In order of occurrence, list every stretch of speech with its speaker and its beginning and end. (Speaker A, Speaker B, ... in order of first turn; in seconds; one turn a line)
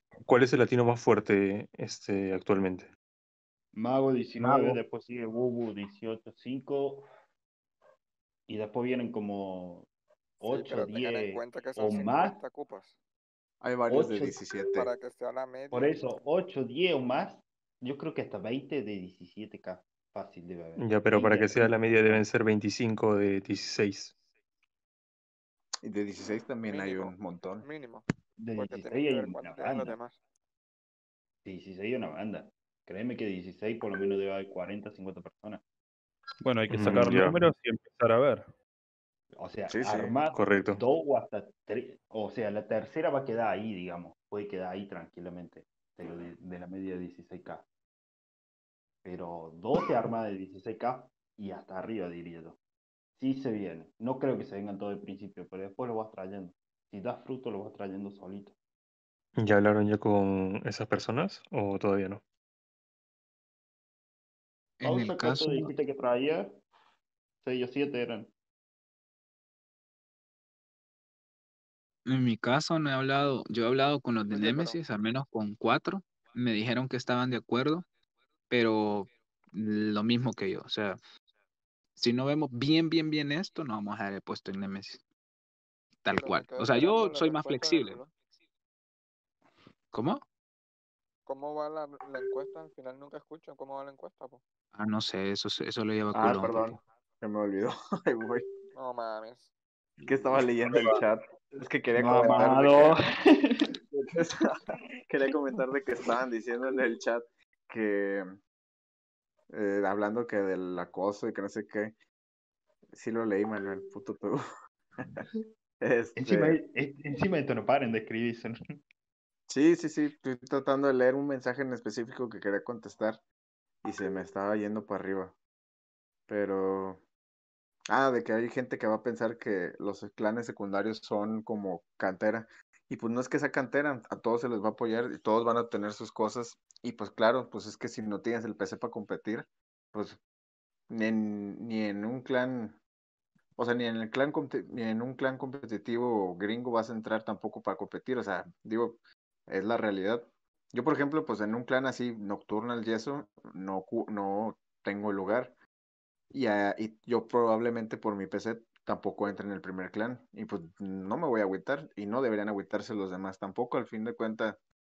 Speaker A: 0.2-2.9
Speaker B: 3.7-7.0
Speaker C: 4.4-4.8
Speaker B: 8.5-9.9
Speaker B: 10.4-12.4
Speaker D: 10.4-12.9
Speaker C: 13.6-14.9
Speaker B: 13.9-14.3
Speaker D: 14.6-16.1
Speaker B: 15.7-22.3
Speaker A: 20.8-24.1
Speaker C: 25.8-27.6
Speaker D: 26.6-28.0
Speaker B: 28.4-30.0
Speaker D: 28.6-30.2
Speaker B: 31.4-35.6
Speaker E: 36.4-38.5
Speaker A: 36.7-37.4
Speaker B: 39.3-47.6
Speaker C: 39.7-40.1
Speaker A: 40.3-40.8
Speaker B: 49.0-52.6
Speaker B: 53.2-58.5
Speaker A: 59.4-62.2
Speaker F: 64.8-65.7
Speaker B: 64.8-66.6
Speaker B: 67.4-68.3
Speaker F: 72.0-77.8
Speaker D: 74.3-74.8
Speaker F: 78.5-81.0
Speaker F: 82.0-85.0
Speaker F: 86.0-88.0
Speaker D: 86.1-88.1
Speaker F: 89.9-90.2
Speaker D: 91.3-94.4
Speaker F: 94.7-96.8
Speaker B: 96.1-96.8
Speaker C: 97.2-98.4
Speaker D: 98.7-99.5
Speaker C: 100.0-103.0
Speaker B: 101.9-103.7
Speaker C: 103.9-104.5
Speaker C: 105.0-108.3
Speaker C: 109.5-112.0
Speaker C: 112.9-114.4
Speaker C: 115.8-116.6
Speaker B: 116.2-118.5
Speaker C: 119.5-123.2
Speaker C: 123.8-125.3
Speaker C: 126.3-127.0
Speaker C: 127.9-140.2
Speaker C: 140.9-142.8
Speaker C: 143.6-155.6
Speaker C: 156.3-164.6